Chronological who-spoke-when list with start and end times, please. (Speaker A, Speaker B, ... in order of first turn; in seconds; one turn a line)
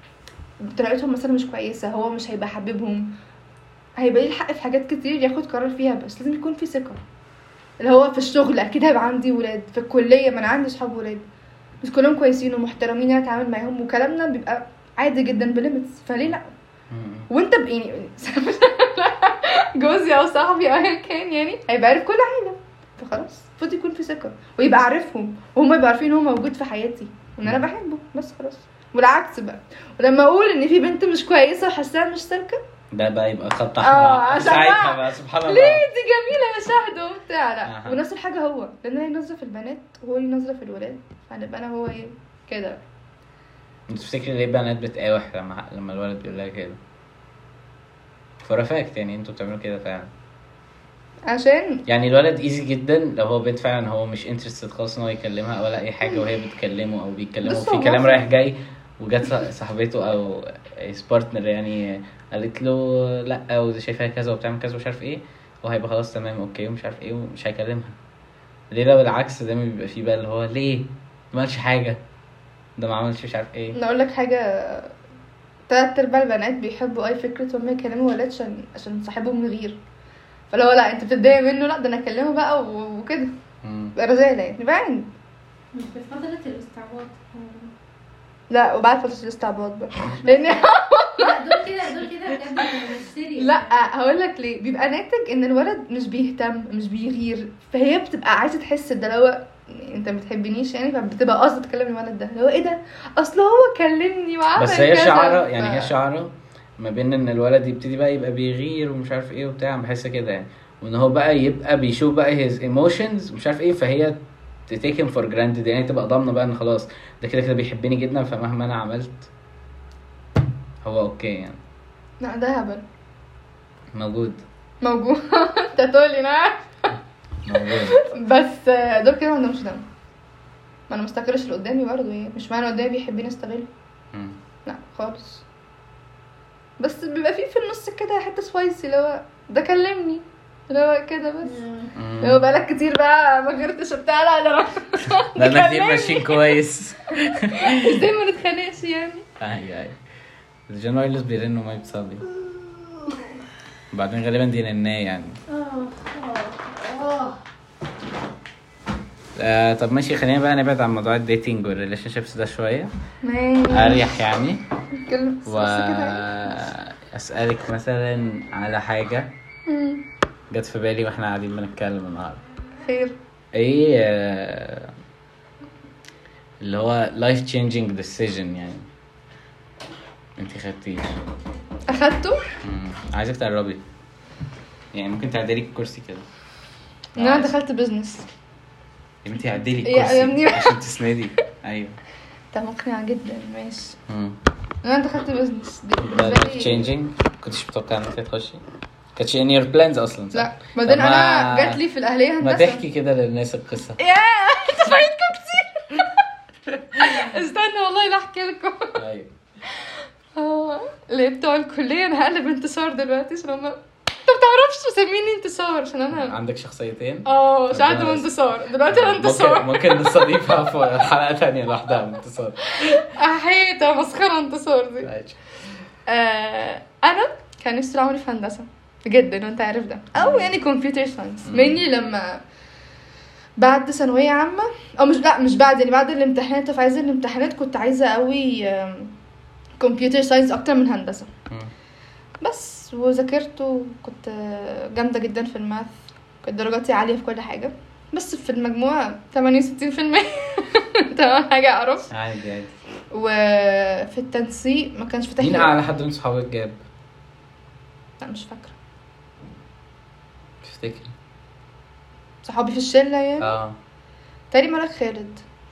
Speaker A: 0.6-3.1
Speaker A: 4.0-7.0
Speaker A: 7.8-11.2
Speaker A: 11.8-16.5
Speaker B: 16.9-17.3
Speaker A: 17.3-32.6
Speaker B: 32.9-35.8
Speaker A: 33.8-42.8
Speaker B: 37.6-38.0
Speaker B: 43.9-46.8
Speaker B: 48.4-50.1
Speaker A: 51.3-51.8
Speaker B: 51.9-68.0
Speaker A: 57.4-58.3
Speaker B: 68.7-72.0
Speaker B: 72.8-73.8
Speaker A: 73.7-74.9
Speaker A: 75.7-79.8
Speaker A: 80.5-83.3
Speaker B: 83.6-83.9
Speaker A: 84.0-85.1
Speaker C: 85.7-87.7
Speaker A: 88.5-91.6
Speaker C: 90.2-93.7
Speaker A: 93.4-105.9
Speaker B: 104.5-119.3
Speaker B: 120.8-121.6
Speaker A: 122.2-122.8
Speaker B: 123.9-124.4
Speaker A: 124.8-126.7
Speaker B: 127.4-128.0
Speaker A: 127.7-129.8
Speaker A: 130.9-133.7
Speaker A: 134.7-135.4
Speaker A: 136.8-141.6
Speaker C: 141.4-141.9
Speaker B: 141.9-142.4
Speaker A: 142.2-146.6
Speaker B: 145.3-148.1
Speaker A: 147.5-149.2
Speaker B: 149.4-150.0
Speaker B: 150.7-152.2
Speaker B: 153.9-155.4
Speaker C: 155.5-157.4
Speaker B: 159.4-162.9
Speaker A: 163.2-164.1
Speaker B: 163.7-164.6
Speaker A: 165.0-166.3
Speaker B: 165.4-169.3
Speaker A: 169.7-170.0
Speaker B: 170.5-172.4
Speaker A: 172.8-173.1
Speaker B: 173.5-174.9
Speaker B: 176.6-178.8
Speaker B: 180.4-181.1
Speaker A: 181.9-182.5
Speaker B: 182.6-183.8
Speaker B: 184.9-186.2
Speaker B: 187.1-187.5
Speaker A: 187.2-188.2
Speaker B: 189.2-192.0
Speaker A: 189.8-190.8
Speaker A: 192.5-194.0
Speaker B: 194.1-194.4
Speaker A: 194.8-196.9
Speaker B: 196.0-198.6
Speaker B: 199.2-201.8
Speaker A: 200.3-202.8
Speaker B: 202.4-204.0
Speaker A: 204.0-206.2
Speaker A: 206.9-209.0
Speaker B: 207.0-207.2
Speaker B: 208.9-209.3
Speaker A: 209.8-216.3
Speaker B: 216.1-218.3
Speaker A: 217.2-220.5
Speaker B: 218.8-223.0
Speaker A: 222.7-225.1
Speaker B: 225.0-225.4
Speaker A: 226.1-232.4
Speaker B: 230.1-230.5
Speaker B: 231.4-231.8
Speaker A: 233.6-239.1
Speaker A: 239.8-241.3
Speaker A: 242.4-252.1
Speaker B: 252.1-252.7
Speaker A: 253.1-255.7
Speaker B: 255.4-256.8
Speaker A: 258.2-258.7
Speaker B: 260.6-261.1
Speaker A: 262.4-263.5
Speaker B: 263.4-263.8
Speaker A: 264.5-265.4